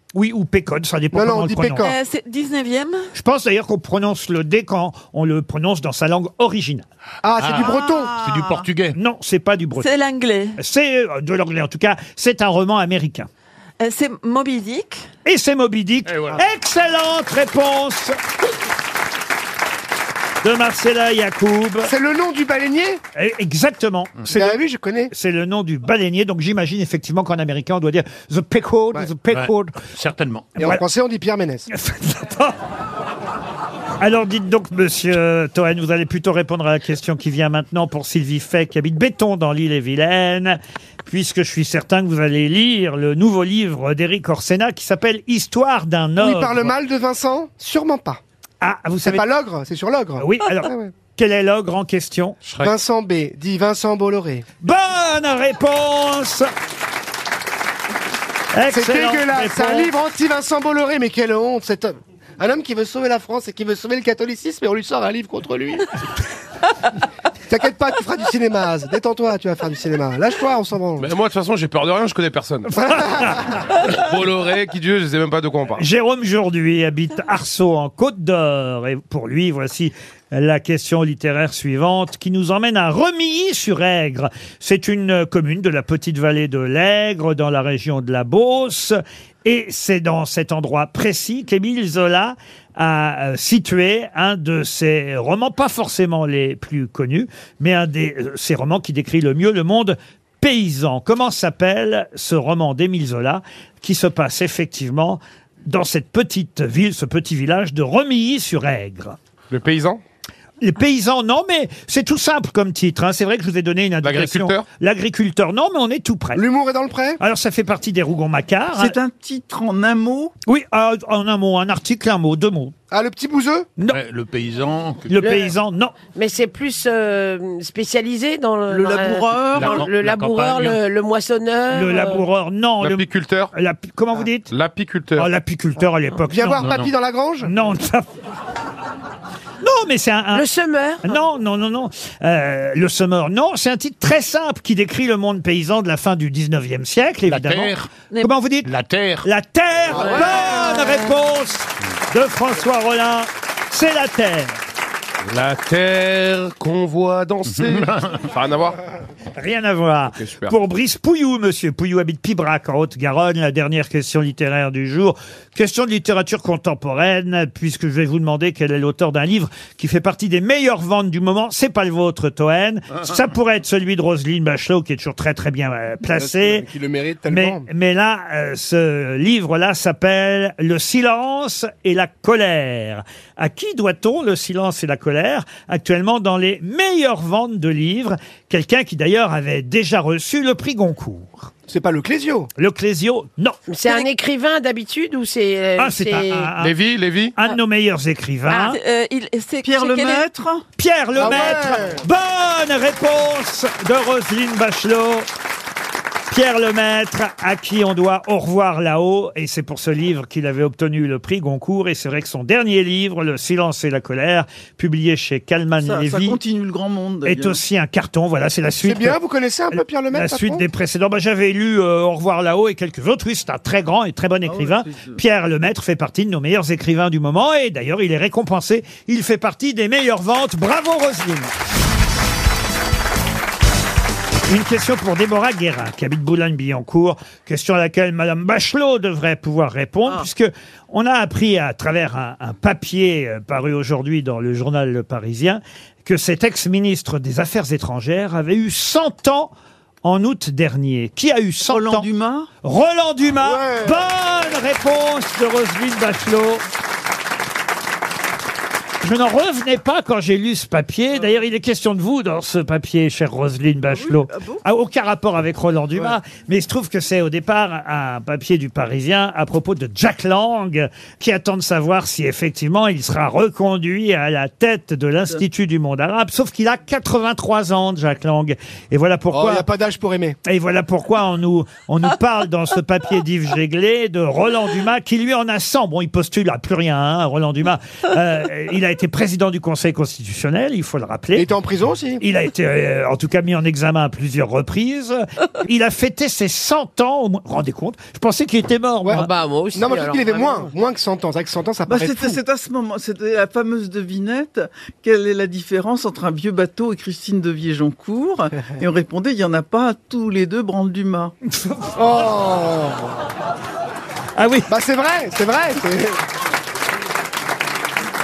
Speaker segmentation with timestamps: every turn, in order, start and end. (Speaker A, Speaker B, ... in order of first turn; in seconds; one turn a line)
Speaker A: 0.1-1.9
Speaker B: 1.1-1.9
Speaker C: 1.8-3.1
Speaker A: 3.1-6.9
Speaker B: 7.2-8.1
Speaker D: 7.4-9.0
Speaker E: 7.6-8.7
Speaker A: 8.9-9.9
Speaker C: 9.8-10.6
Speaker A: 10.6-13.3
Speaker C: 13.8-15.1
Speaker A: 15.2-18.2
Speaker D: 16.1-16.4
Speaker A: 20.4-21.9
Speaker B: 21.8-23.0
Speaker A: 23.1-29.8
Speaker B: 24.3-25.1
Speaker D: 29.3-30.5
Speaker B: 30.6-31.7
Speaker A: 31.7-32.5
Speaker A: 34.0-46.7
Speaker B: 46.2-48.2
Speaker A: 48.6-49.2
Speaker B: 49.0-50.9
Speaker A: 50.2-52.4
Speaker B: 52.6-54.4
Speaker A: 54.6-56.5
Speaker A: 58.5-59.9
Speaker B: 58.7-65.8
Speaker B: 67.5-71.1
Speaker F: 71.0-72.8
Speaker B: 72.8-73.4
Speaker A: 73.0-73.3
Speaker F: 73.8-75.8
Speaker A: 75.8-109.2
Speaker F: 109.5-110.0
Speaker A: 110.6-116.4
Speaker F: 114.0-114.6
Speaker B: 116.3-117.2
Speaker A: 117.2-119.0
Speaker E: 118.7-120.3
Speaker A: 120.5-122.7
Speaker B: 122.9-123.7
Speaker D: 123.8-125.2
Speaker A: 125.1-125.9
Speaker G: 125.2-125.5
Speaker G: 126.1-132.2
Speaker E: 128.7-129.9
Speaker D: 129.6-130.8
Speaker A: 131.7-134.5
Speaker F: 132.8-133.5
Speaker F: 134.5-135.3
Speaker A: 135.2-136.7
Speaker B: 136.3-137.5
Speaker D: 136.6-136.9
Speaker A: 137.4-138.1
Speaker A: 139.6-140.5
Speaker G: 140.3-141.0
Speaker A: 141.0-148.7
Speaker D: 147.3-147.9
Speaker D: 148.6-149.3
Speaker A: 149.2-154.6
Speaker B: 149.9-150.6
Speaker G: 149.9-151.1
Speaker F: 155.2-158.8
Speaker D: 157.4-158.3
Speaker A: 159.4-176.7
Speaker F: 160.1-160.5
Speaker B: 176.1-177.7
Speaker A: 177.3-191.5
Speaker B: 191.7-192.5
Speaker A: 192.6-194.0
Speaker G: 193.7-196.5
Speaker A: 195.8-196.7
Speaker F: 196.6-197.3
Speaker A: 197.3-198.8
Speaker C: 198.6-200.3
Speaker E: 199.6-200.6
Speaker A: 200.8-205.3
Speaker B: 201.2-202.0
Speaker A: 206.3-216.4
Speaker E: 215.8-217.6
Speaker A: 217.2-219.2
Speaker B: 218.8-220.7
Speaker A: 219.7-231.5
Speaker E: 224.4-225.2
Speaker A: 234.5-249.5
Speaker A: 250.0-252.1
Speaker E: 251.7-252.5
Speaker A: 252.6-256.6
Speaker B: 253.4-254.1
Speaker A: 259.0-279.6
Speaker E: 263.9-264.6
Speaker B: 279.3-280.4
Speaker A: 280.4-291.5
Speaker B: 291.3-292.2
Speaker A: 292.2-299.3
Speaker B: 299.0-302.4
Speaker G: 299.1-300.7
Speaker E: 301.9-311.3
Speaker A: 311.5-311.9
Speaker B: 311.9-313.1
Speaker A: 314.4-314.7
Speaker B: 314.7-316.2